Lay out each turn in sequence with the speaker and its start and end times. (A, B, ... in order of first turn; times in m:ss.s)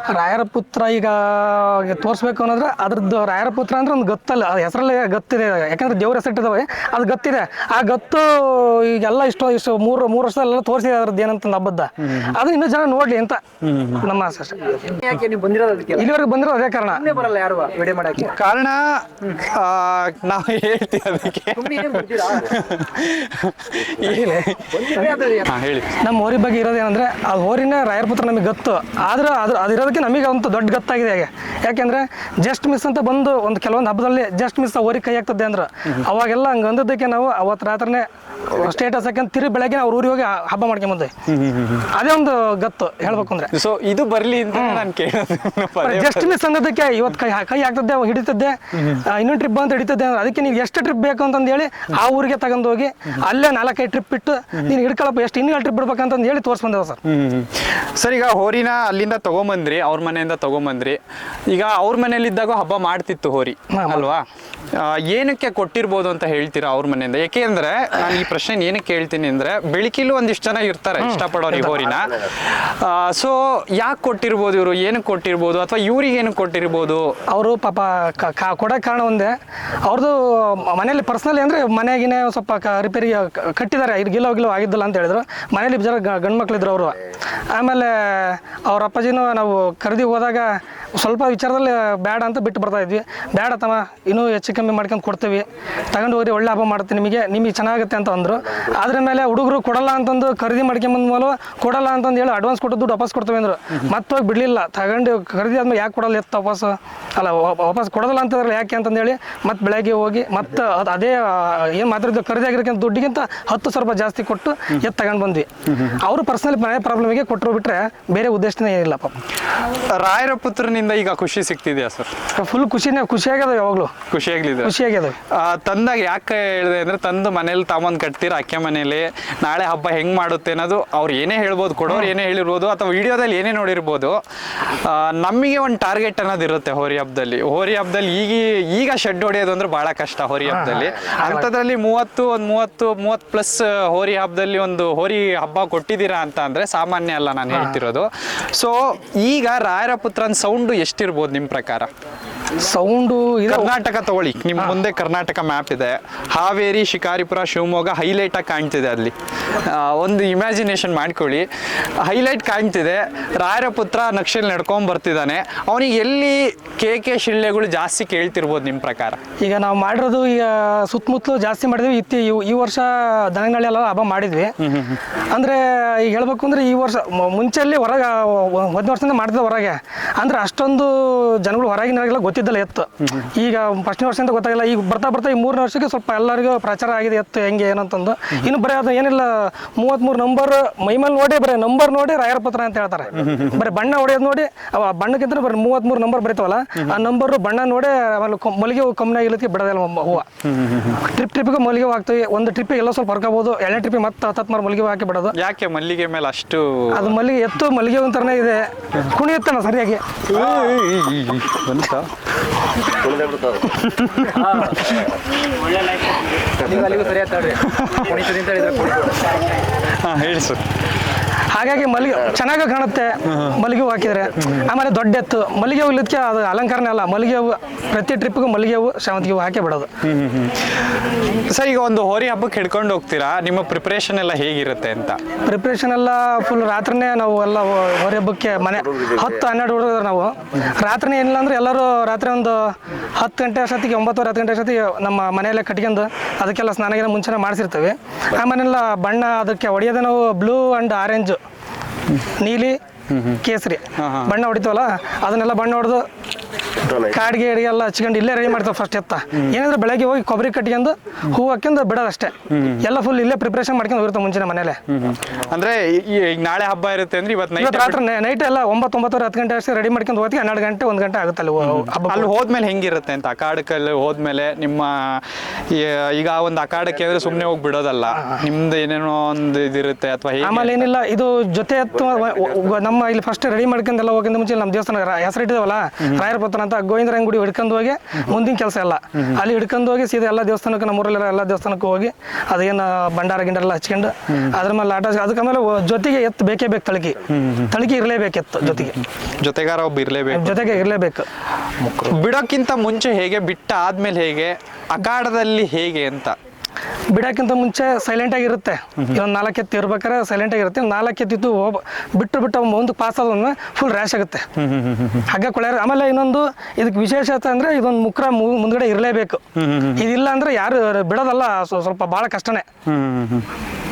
0:00.1-0:13.4 A
0:13.6-0:14.0 B
0:14.0-0:14.7 A
0:14.8-0:16.1 C
0:16.0-0:17.0 A
0:16.9-0:18.3 C
0:18.2-0:26.0 B
0:21.5-0:22.5 C
0:24.0-0:24.4 A
0:24.7-0:25.5 C
0:26.0-0:41.1 A
0:41.2-0:41.9 B
0:41.9-0:43.5 A
0:43.5-0:46.4 B
0:44.5-0:44.8 A
0:45.8-0:57.0 A
0:57.0-1:17.1 B
1:03.7-1:04.0 A
1:11.0-1:11.8 A
1:17.3-1:27.0 A
1:27.5-1:59.2 A
1:55.7-1:56.0 B
1:59.7-2:02.1 B
2:02.3-2:03.9 A
2:04.1-2:04.8 B
2:04.6-2:05.2 A
2:05.3-2:31.9 B
2:20.5-2:21.5 A
2:27.5-2:27.8 A
2:32.6-2:33.7 A
2:33.5-2:41.5 B
2:42.0-2:49.2 B
2:49.4-2:54.6 A
2:54.6-2:55.0 B
2:55.3-3:20.3 A
3:03.0-3:03.3 B
3:13.2-3:13.6 B
3:20.4-3:21.0 B
3:21.0-3:25.4 A
3:25.3-3:27.1 B
3:26.9-3:30.2 A
3:30.3-3:32.1 B
3:33.6-3:35.1 B
3:34.3-3:34.9 C
3:35.4-3:39.3 C
3:37.6-3:38.1 B
3:40.0-3:40.6 B
3:41.5-3:49.9 A
3:43.3-3:43.6 B
3:50.0-3:55.2 B
3:55.4-4:11.4 A
4:12.4-4:12.8 A
4:13.1-4:13.4 B
4:13.4-4:16.0 A
4:14.0-4:14.4 B
4:16.9-4:24.8 A
4:22.5-4:22.8 B
4:24.9-4:28.0 B
4:27.6-4:32.3 A
4:31.6-4:40.9 B
4:38.1-4:38.4 A
4:40.4-4:59.0 A
4:57.3-4:57.8 B
4:58.6-5:00.9 B
5:00.3-5:01.3 A
5:01.8-5:06.4 B
5:07.1-5:14.5 A
5:14.6-5:15.3 B
5:15.3-5:19.4 A
5:19.6-5:20.1 B
5:20.0-5:22.7 A
5:22.8-5:23.5 B